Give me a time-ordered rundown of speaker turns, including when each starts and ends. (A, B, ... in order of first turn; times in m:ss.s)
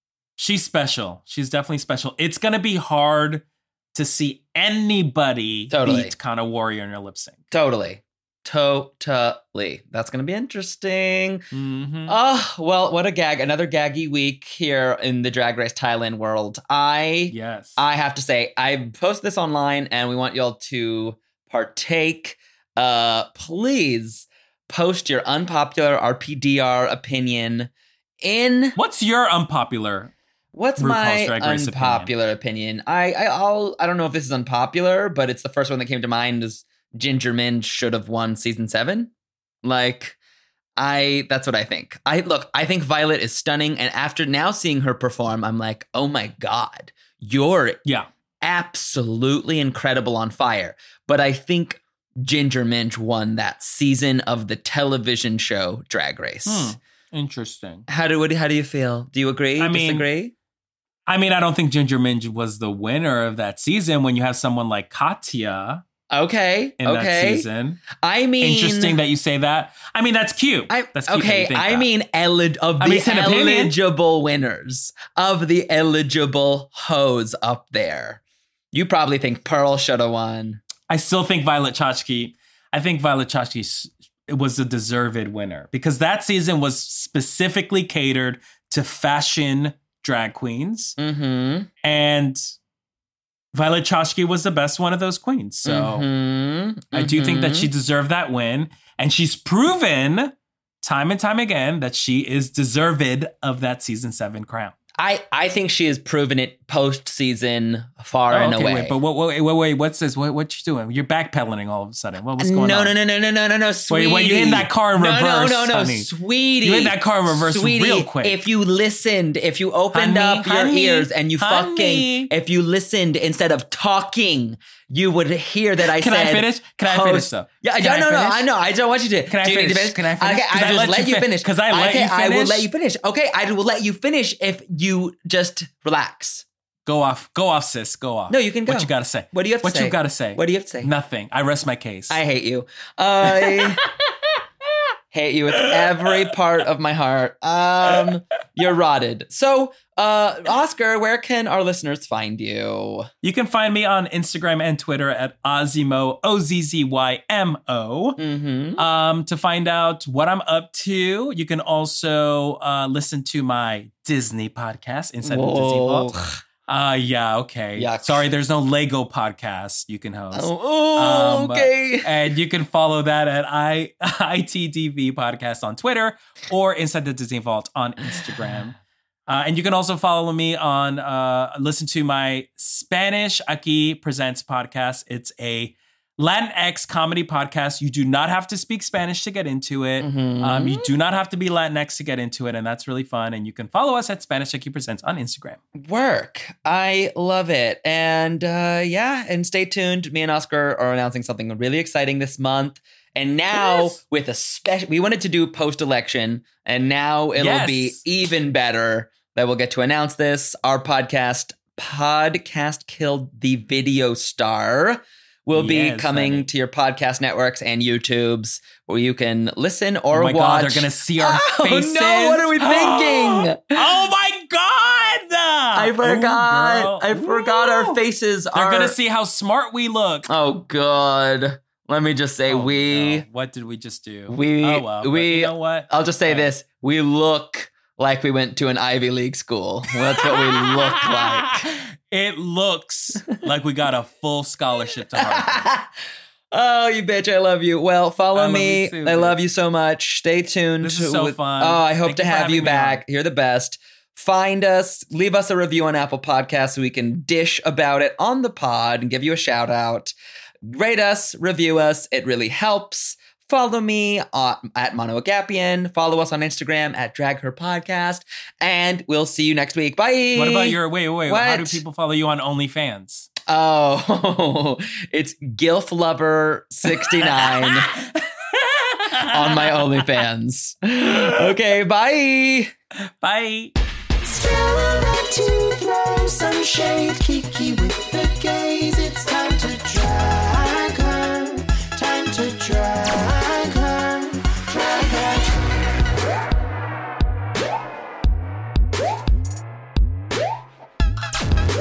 0:00.4-0:07.4 A
0:05.7-0:06.2 B
0:07.5-0:11.4 B
0:11.5-0:12.2 A
0:12.1-0:28.8 B
0:17.3-0:17.8 A
0:28.8-0:30.1 A
0:30.5-0:39.1 B
0:30.8-0:32.1 A
0:39.6-0:40.2 B
0:40.8-0:47.8 B
0:48.4-0:56.8 B
0:56.5-0:57.9 A
0:57.9-1:00.3 B
0:59.6-1:00.1 A
1:01.1-1:05.8 A
1:06.1-1:09.0 B
1:06.8-1:07.8 A
1:08.4-1:11.9 A
1:10.7-1:18.2 B
1:12.8-1:13.8 A
1:18.7-1:20.6 B
1:20.9-1:31.0 A
1:31.0-1:31.7 B
1:31.8-1:32.5 A
1:33.5-1:36.1 A
1:35.6-1:37.7 B
1:36.9-1:44.7 A
1:45.0-1:49.0 B
1:48.3-1:52.9 A
1:52.4-2:16.4 B
1:53.9-1:56.1 A
1:56.6-1:58.4 A
1:59.9-2:02.3 A
2:05.8-2:08.5 A
2:09.3-2:12.7 A
2:16.9-2:22.2 A
2:18.3-2:20.9 B
2:22.1-2:23.8 B
2:23.4-2:23.8 A
2:25.1-2:33.1 B
2:25.7-2:26.3 A
2:33.2-2:38.2 A
2:38.2-2:38.8 B
2:38.8-2:46.2 A
2:45.2-2:46.4 B
2:46.7-2:58.8 A
2:47.8-2:48.3 B
2:50.3-2:52.1 B
2:59.3-3:15.6 A
3:10.0-3:10.9 B
3:15.8-3:43.9 B
3:23.5-3:24.0 A
3:27.4-3:28.0 A
3:35.5-3:36.5 A
3:40.1-3:48.0 A
3:45.8-3:49.0 B
3:48.5-3:50.3 A
3:50.3-3:53.2 B
3:52.5-3:56.5 A
3:54.3-4:01.6 B
4:00.2-4:05.7 A
4:05.2-4:05.9 B
4:06.5-4:20.1 B
4:08.3-4:09.4 A
4:10.8-4:13.0 A
4:20.7-4:31.8 B
4:30.4-4:33.3 A
4:33.5-4:37.9 B
4:36.9-4:40.2 A
4:39.3-4:42.7 B
4:43.0-4:43.7 A
4:44.2-4:55.6 C